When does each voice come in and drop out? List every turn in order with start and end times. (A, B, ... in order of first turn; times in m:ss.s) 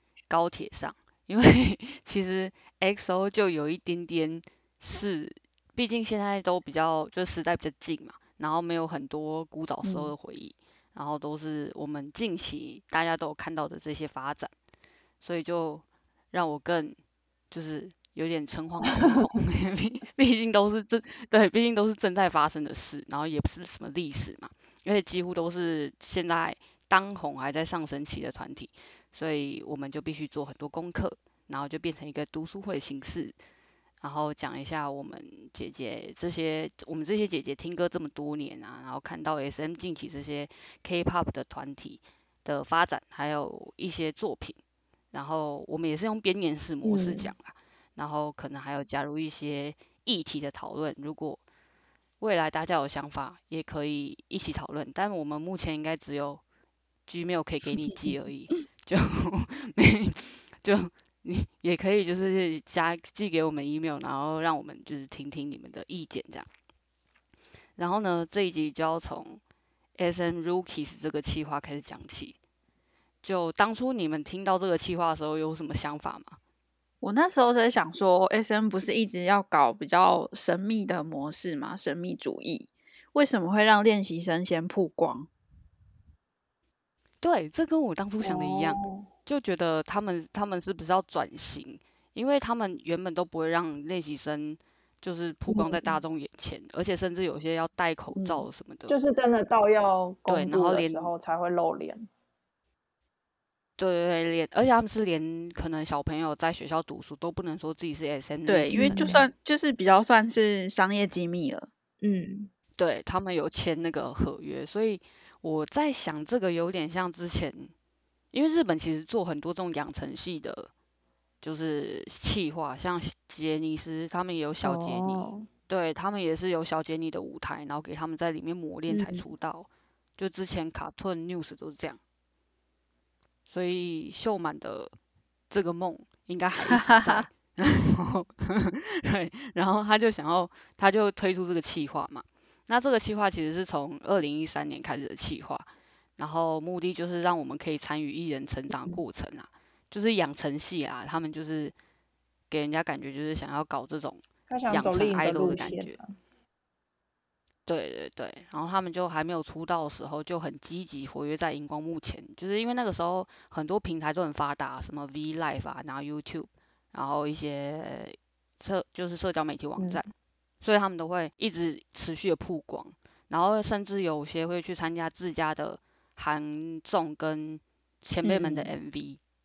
0:00.3-0:14.5 A
0:15.2-0:17.0 A
0:17.5-0:33.3 A
0:34.0-0:44.6 A
0:45.1-0:51.4 A
0:46.8-0:47.3 B
0:52.2-0:56.4 A
0:57.1-1:06.5 A
1:07.8-1:09.4 A
1:10.0-1:12.4 A
1:13.2-1:16.4 A
1:17.0-1:25.3 C
1:27.2-1:38.9 A
1:28.2-1:29.1 B
1:35.5-1:36.0 B
1:38.1-1:38.4 C
1:38.9-1:42.1 B
1:40.3-1:41.1 A
1:43.8-1:49.2 A
1:48.4-1:51.7 C
1:48.7-1:49.3 B
1:52.0-1:52.5 B
1:52.8-1:57.7 A
1:58.3-2:00.7 A
2:01.4-2:12.0 A
2:04.6-2:05.5 B
2:08.9-2:09.2 B
2:13.5-2:14.9 A
2:15.5-2:25.6 A
2:16.7-2:17.2 C
2:26.2-2:31.7 A
2:28.7-2:29.0 B
2:32.5-2:36.0 A
2:34.5-2:36.1 B
2:37.6-2:50.1 A
2:49.8-2:50.0 B
2:50.6-2:59.2 A
2:58.2-2:58.7 C